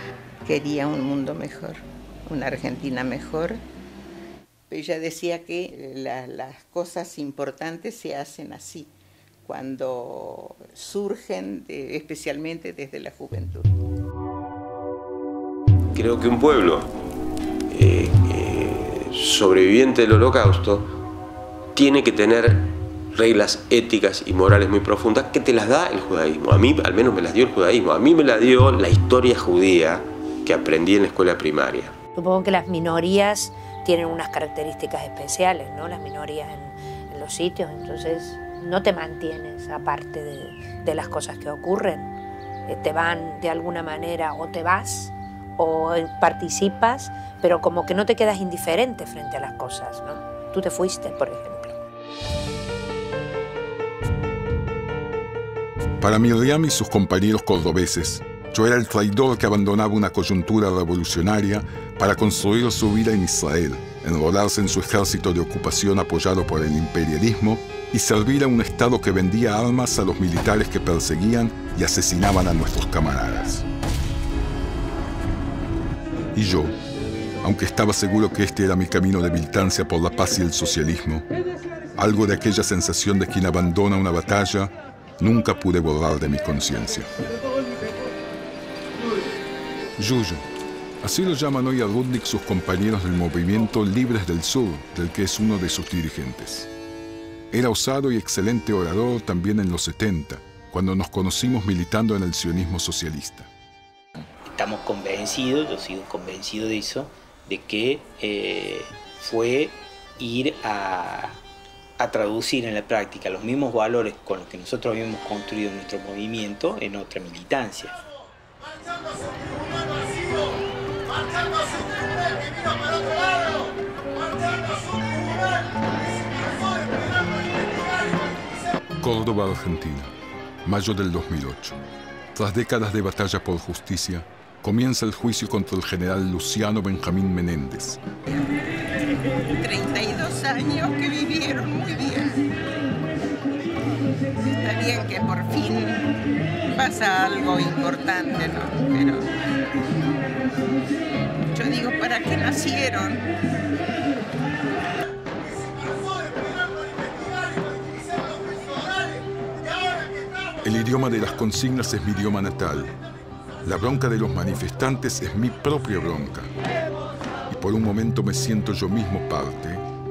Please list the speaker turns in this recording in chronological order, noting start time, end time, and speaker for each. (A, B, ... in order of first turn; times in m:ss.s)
0:00.4-0:03.6 A
0:04.7-0:08.9 A
0:09.4-0:13.7 A
0:15.9-0:16.9 B
0:17.7-0:20.9 B
0:21.7-0:31.9 B
0:32.1-0:42.1 C
0:42.7-0:51.8 C
0:56.0-1:13.6 D
1:16.3-1:16.8 D
1:17.4-1:21.3 D
1:22.0-1:27.1 D
1:30.0-1:30.4 D
1:31.0-1:36.7 D
1:37.5-1:43.5 D
1:44.5-1:51.4 E
1:52.0-1:58.0 E
2:09.0-2:10.1 D
2:10.6-2:11.8 D
2:12.3-2:18.0 D
2:19.5-2:22.5 A
2:24.5-2:26.2 A
2:26.7-2:29.4 A
2:31.5-2:33.3 A
2:40.6-2:42.9 D
2:43.6-2:46.5 D
2:47.5-2:49.8 D